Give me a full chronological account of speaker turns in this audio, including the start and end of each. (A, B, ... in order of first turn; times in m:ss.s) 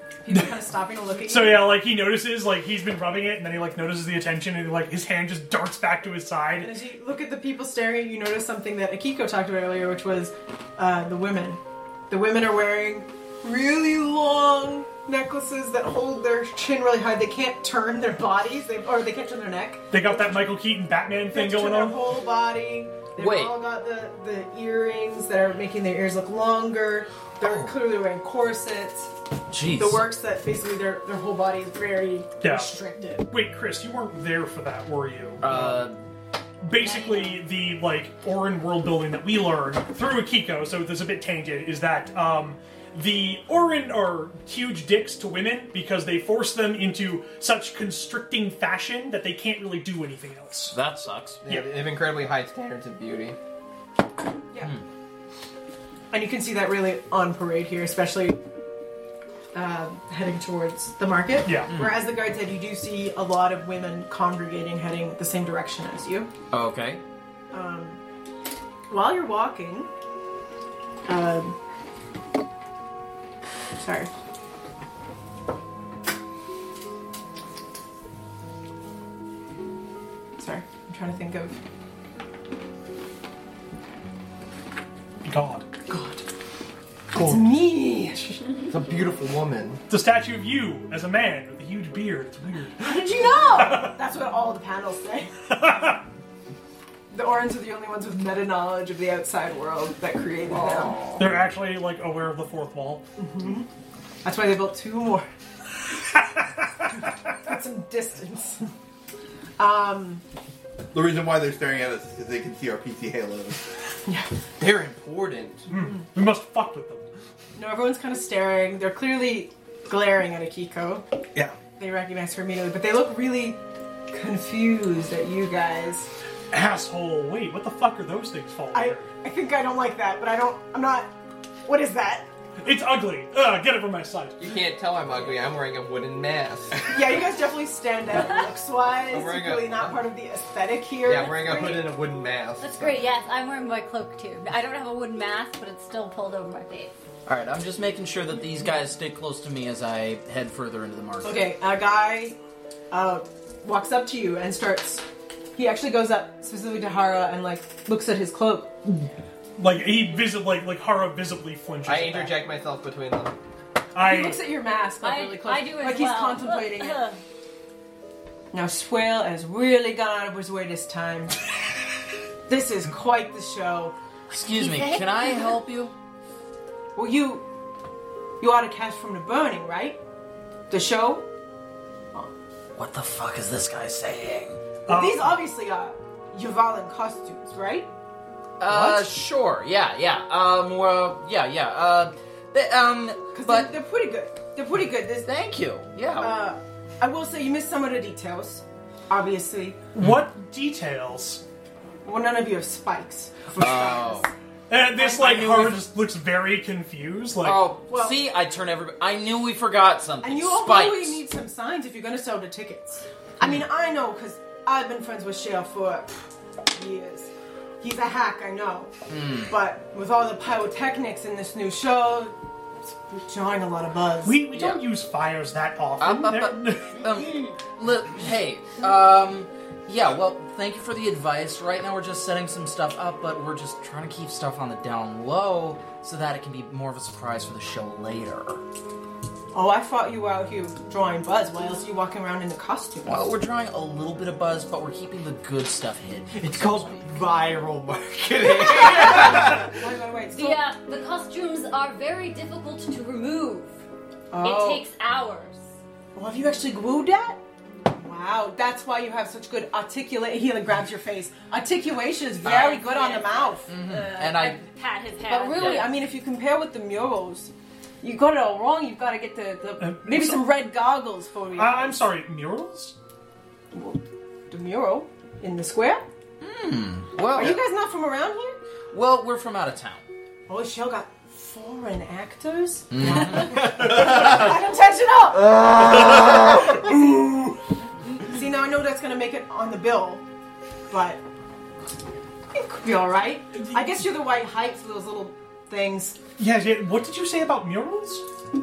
0:00.2-0:01.7 A
0:01.2-0:06.7 B
0:06.6-0:20.4 A
0:19.9-0:22.0 B
0:21.3-0:29.1 A
0:23.2-0:23.6 C
0:27.4-0:27.7 C
0:29.5-0:30.1 C
0:29.8-0:33.3 A
0:32.4-0:35.9 B
0:35.4-0:36.0 C
0:36.6-0:50.7 B
0:36.7-0:37.4 D
0:50.7-0:51.4 C
0:51.4-0:53.4 E
0:56.1-0:58.4 A
0:59.5-1:06.3 A
1:01.4-1:01.7 B
1:01.7-1:02.0 C
1:06.5-1:07.0 C
1:07.5-1:08.0 A
1:08.9-1:09.9 A
1:11.0-1:11.6 A
1:13.8-1:14.1 A
1:20.4-1:21.6 A
1:25.2-1:25.7 B
1:25.9-1:26.2 A
1:27.1-1:28.4 A
1:27.1-1:27.5 B
1:28.7-1:29.8 E
1:29.9-1:34.0 B
1:32.8-1:35.9 A
1:35.5-1:36.0 B
1:37.1-1:41.0 A
1:41.2-1:43.0 B
1:43.2-1:43.7 A
1:44.2-1:45.3 A
1:47.3-1:48.7 A
1:49.6-1:50.2 A
1:50.9-1:53.7 F
1:54.0-1:54.3 A
1:54.6-1:55.7 E
1:55.7-1:57.0 B
1:57.6-2:01.0 A
2:01.8-2:06.1 A
2:06.5-2:09.1 B
2:08.7-2:11.1 A
2:11.6-2:12.3 A
2:12.6-2:14.4 B
2:14.4-2:16.9 E
2:16.9-2:21.9 A
2:19.1-2:20.0 E
2:21.0-2:23.0 E
2:22.6-2:26.9 D
2:27.2-2:31.4 C
2:31.2-2:32.4 A
2:32.9-2:39.1 A
2:39.6-2:42.4 B
2:41.8-2:43.4 E
2:43.9-2:44.4 B
2:44.0-2:47.0 A
2:45.0-2:47.2 D
2:48.5-2:51.4 A
2:52.5-2:53.9 A
2:54.3-2:55.9 C
2:54.5-2:55.5 D
2:57.0-2:57.4 A
2:58.4-3:00.0 A
3:00.7-3:01.3 A
3:02.7-3:04.6 C
3:04.9-3:05.4 B
3:04.9-3:07.9 A
3:08.6-3:13.8 C
3:13.3-3:15.4 A
3:15.2-3:16.4 C
3:16.2-3:19.8 A
3:19.9-3:21.4 B
3:22.0-3:24.3 A
3:23.6-3:24.3 C
3:24.7-3:27.7 B
3:25.0-3:25.8 A
3:27.4-3:31.2 C
3:27.9-3:28.2 A
3:30.2-3:38.9 A
3:39.1-3:39.5 C
3:39.5-3:42.3 A
3:42.8-3:44.5 A
3:44.2-3:47.0 B
3:44.5-3:44.8 C
3:46.0-3:58.6 C
3:59.5-4:03.2 A
4:03.0-4:07.0 C
4:06.3-4:09.7 E
4:09.0-4:10.6 A
4:10.3-4:13.8 D
4:14.3-4:14.8 A
4:14.4-4:15.6 D
4:16.1-4:17.4 A
4:17.9-4:23.7 A
4:22.4-4:26.0 D
4:23.7-4:24.6 C
4:25.3-4:32.0 A
4:29.8-4:30.5 B
4:31.6-4:32.9 B
4:33.7-4:36.1 A
4:36.4-4:37.6 C
4:37.3-4:38.6 A
4:38.9-4:40.0 C
4:40.5-4:47.5 A
4:42.9-4:44.0 C
4:48.1-4:50.2 A
4:50.9-4:51.2 A
4:52.5-4:56.2 A
4:53.6-4:53.9 B
4:56.4-4:58.2 B